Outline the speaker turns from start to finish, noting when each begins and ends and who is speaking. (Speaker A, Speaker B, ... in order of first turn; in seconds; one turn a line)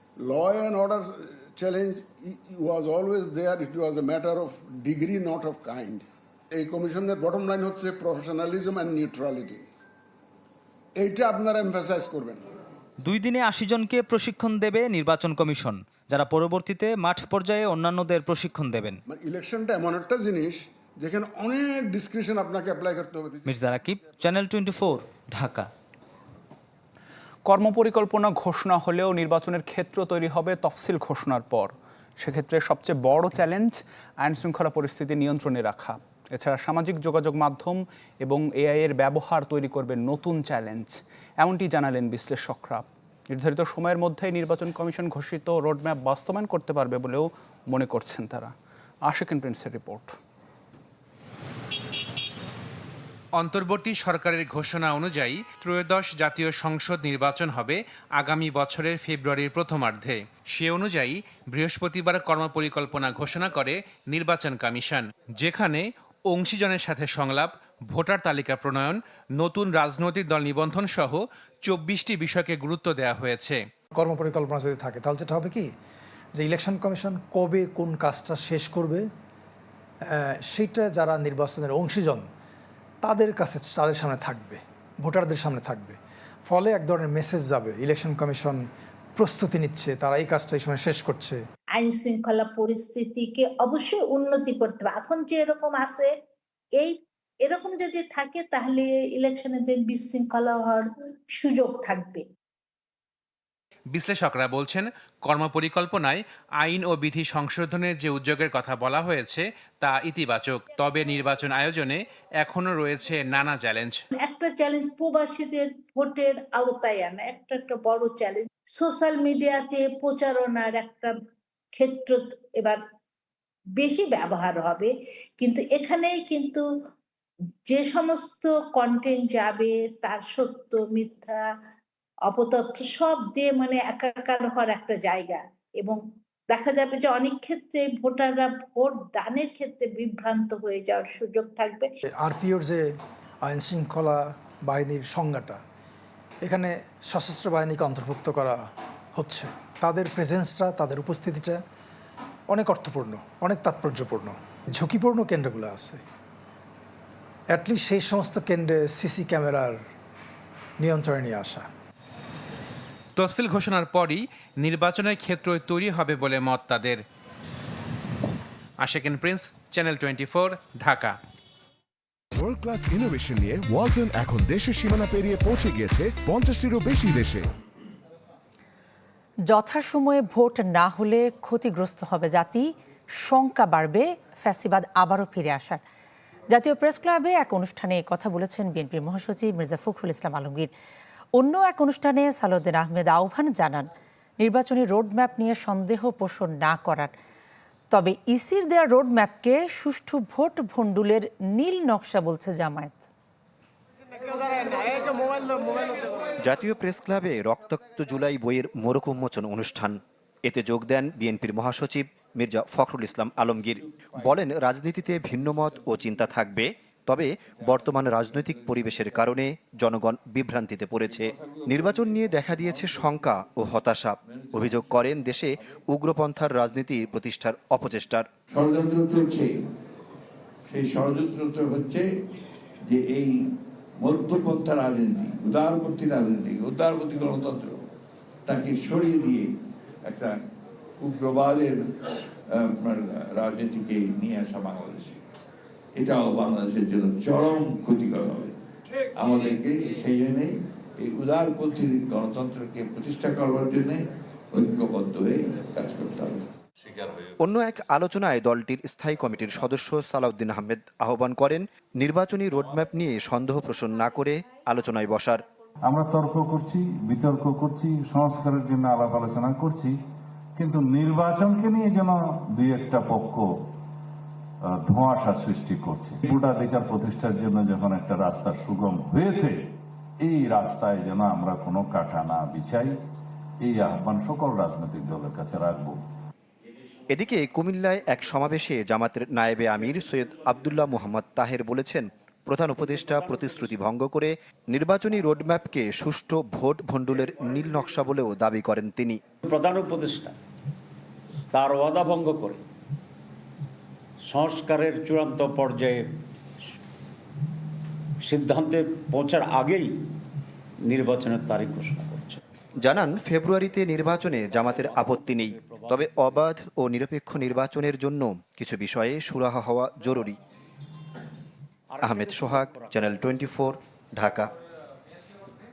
Speaker A: 0.2-6.0
Speaker A: 6.6-9.7
Speaker A: 11.0-12.4
Speaker B: 13.0-19.0
Speaker A: 19.1-23.5
Speaker B: 23.4-25.7
Speaker C: 27.4-48.5
Speaker C: 49.0-50.1
Speaker D: 53.4-73.6
Speaker E: 74.0-75.7
Speaker E: 76.4-79.0
Speaker E: 80.1-82.3
Speaker E: 83.0-88.6
Speaker E: 89.2-91.4
Speaker F: 91.8-96.1
Speaker F: 96.8-102.2
Speaker D: 103.9-114.0
Speaker F: 114.2-121.2
Speaker F: 121.8-122.8
Speaker F: 123.8-126.7
Speaker F: 127.7-131.5
Speaker F: 132.3-141.9
Speaker E: 142.2-142.9
Speaker E: 143.4-145.6
Speaker E: 146.4-148.7
Speaker E: 149.2-151.6
Speaker E: 152.5-156.0
Speaker E: 157.5-159.8
Speaker E: 160.8-161.7
Speaker D: 163.2-167.0
Speaker D: 168.8-171.2
Speaker G: 172.4-177.4
Speaker H: 179.5-185.8
Speaker H: 186.5-190.7
Speaker H: 191.3-197.1
Speaker H: 197.9-203.0
Speaker I: 206.4-228.3
Speaker J: 228.5-229.6
Speaker J: 230.7-232.1
Speaker J: 232.8-233.4
Speaker J: 234.0-237.8
Speaker J: 238.5-239.5
Speaker J: 240.1-240.3
Speaker J: 241.0-241.9
Speaker J: 242.5-245.2
Speaker J: 246.0-248.5
Speaker J: 249.2-256.5
Speaker I: 257.4-265.4
Speaker K: 265.9-270.0
Speaker K: 270.6-273.6
Speaker K: 274.7-279.7
Speaker K: 280.2-283.0
Speaker K: 283.6-286.0
Speaker I: 287.1-299.2
Speaker L: 299.4-300.3
Speaker L: 301.5-302.6
Speaker L: 304.3-306.1
Speaker L: 308.3-309.9
Speaker L: 310.9-312.4
Speaker I: 312.8-320.4
Speaker L: 314.6-316.1
Speaker L: 321.9-323.1
Speaker I: 322.0-324.5